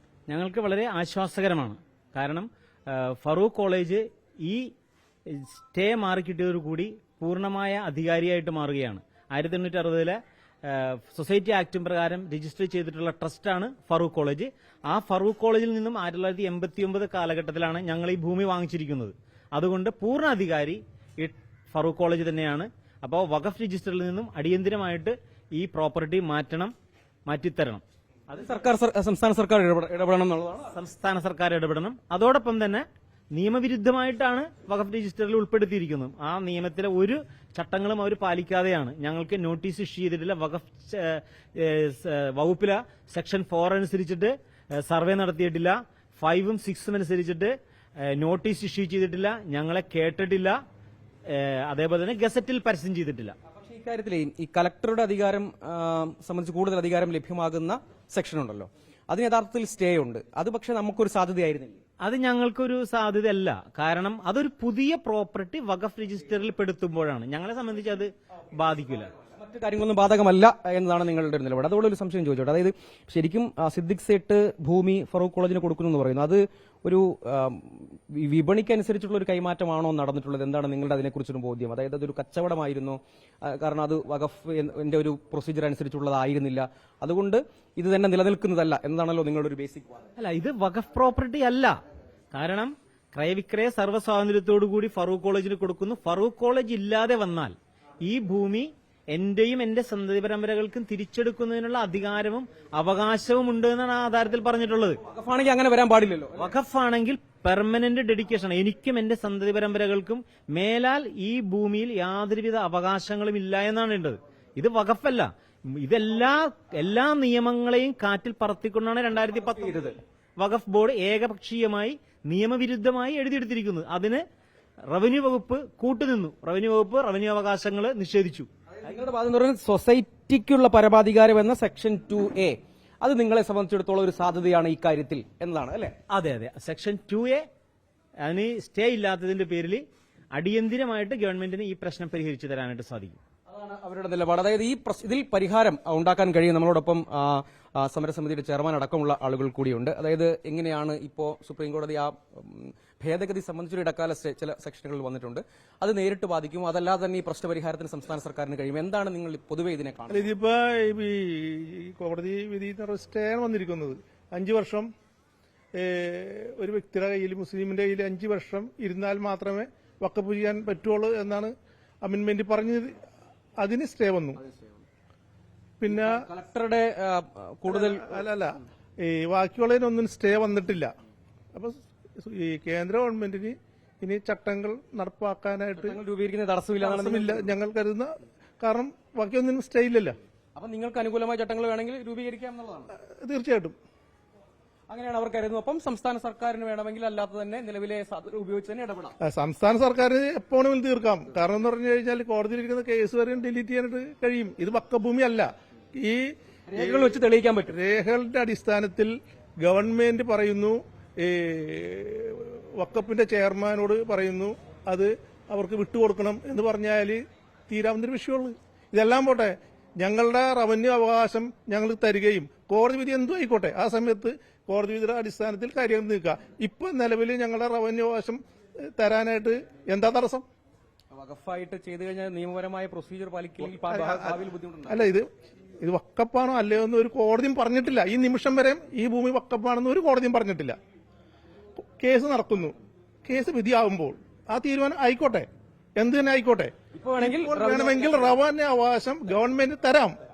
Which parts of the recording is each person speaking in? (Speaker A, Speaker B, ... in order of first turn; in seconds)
Speaker A: 0.3-4.7, 5.3-26.7, 27.3-27.8, 30.7-50.6, 51.3-53.4, 62.0-69.1, 90.2-91.8, 92.3-105.0, 106.4-124.2, 124.9-128.5, 136.1-137.4, 138.2-139.8, 140.3-143.2
Speaker B: 28.3-30.7, 53.5-61.8, 69.4-90.1, 105.0-106.5, 128.8-135.9, 143.5-160.3, 174.4-174.8, 175.9-178.2, 185.8-187.5, 190.6-192.9, 194.9-199.2, 206.7-207.8, 231.1-235.1, 246.9-248.4
Speaker C: 160.1-164.9, 165.8-173.0, 173.6-174.4, 175.8-176.2, 177.7-180.9, 181.5-186.0, 186.8-190.2, 193.1-193.7, 199.2-207.1, 207.7-228.4, 228.9-230.4, 233.9-234.3, 234.9-235.3, 235.8-240.8, 241.8-250.1